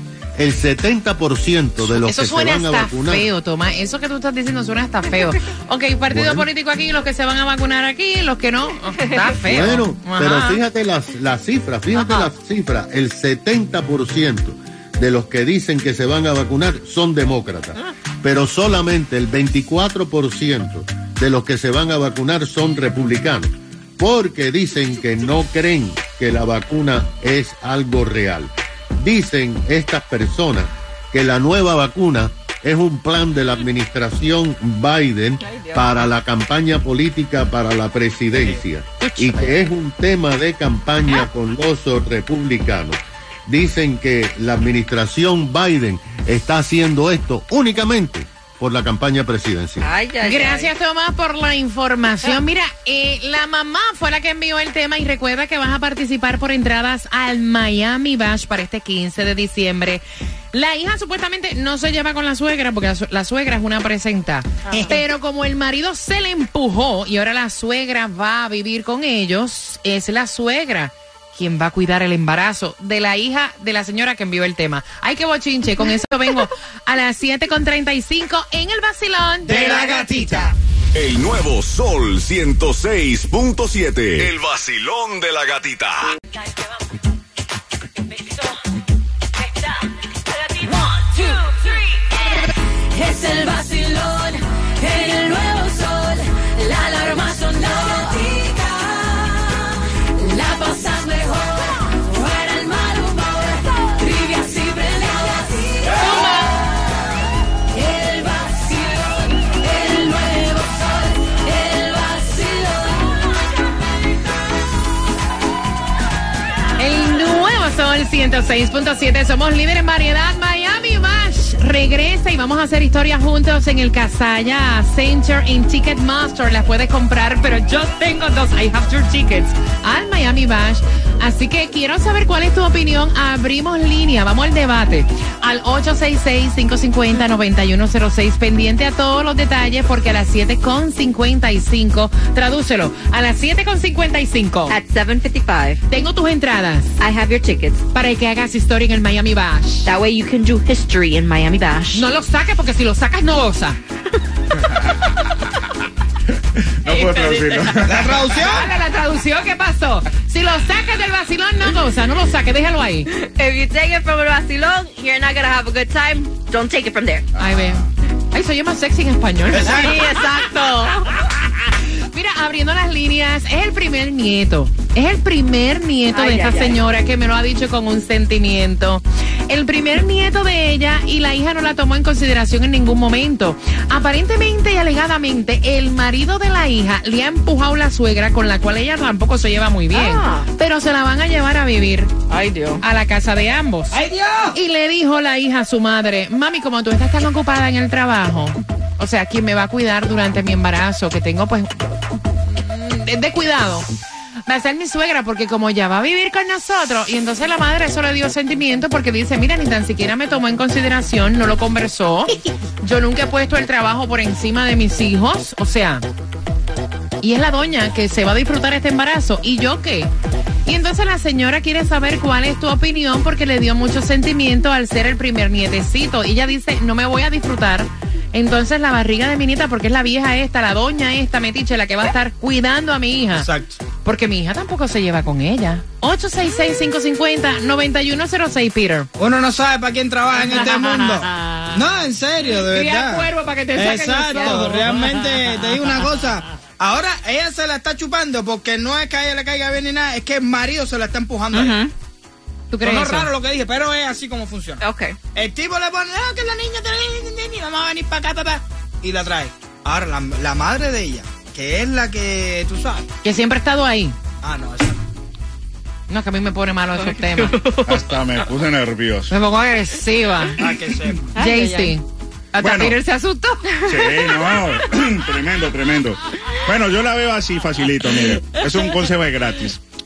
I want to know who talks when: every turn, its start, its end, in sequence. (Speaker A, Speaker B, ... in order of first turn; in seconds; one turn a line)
Speaker A: 0.3-3.3
Speaker B: 1.8-10.6
Speaker A: 6.1-6.5
Speaker A: 9.4-49.9
Speaker B: 11.9-12.3
Speaker C: 35.5-35.8
Speaker B: 39.0-39.6
Speaker C: 49.8-50.7
Speaker B: 50.2-80.5
Speaker D: 64.7-65.0
Speaker D: 79.5-80.5
Speaker E: 80.9-86.1
Speaker C: 93.0-99.6
Speaker C: 100.2-106.3
Speaker B: 105.9-106.6
Speaker C: 107.8-112.9
Speaker B: 116.8-144.7
Speaker C: 144.7-145.8
Speaker B: 145.9-147.0
Speaker C: 147.0-147.8
Speaker B: 147.9-149.9
Speaker C: 149.8-152.1
Speaker B: 151.9-153.8
Speaker F: 156.6-158.2
Speaker B: 156.8-163.1
Speaker D: 157.8-158.7
Speaker C: 163.1-167.3
Speaker B: 167.4-170.2
Speaker D: 169.5-170.1
Speaker C: 169.5-171.1
Speaker B: 172.1-192.1
Speaker C: 176.1-176.8
Speaker C: 189.9-190.5
Speaker C: 192.3-192.8
Speaker B: 192.8-194.0
Speaker D: 193.9-194.6
Speaker B: 194.5-203.9
Speaker B: 204.5-216.0
Speaker B: 217.2-220.1
Speaker B: 220.7-233.5
Speaker D: 233.3-233.8
Speaker B: 234.0-239.1
Speaker D: 239.2-251.8
Speaker B: 240.4-241.8
Speaker B: 242.6-245.8
Speaker C: 251.5-251.9
Speaker B: 252.7-253.3
Speaker D: 252.8-254.8
Speaker C: 254.8-255.2
Speaker D: 255.3-263.1
Speaker B: 263.2-264.1
Speaker D: 264.4-265.0
Speaker B: 266.1-267.6
Speaker C: 267.0-267.8
Speaker F: 267.9-269.3
Speaker B: 269.3-270.6
Speaker D: 270.6-271.3
Speaker C: 271.4-272.0
Speaker B: 271.4-273.7
Speaker F: 272.6-273.0
Speaker C: 273.7-274.7
Speaker F: 273.8-279.8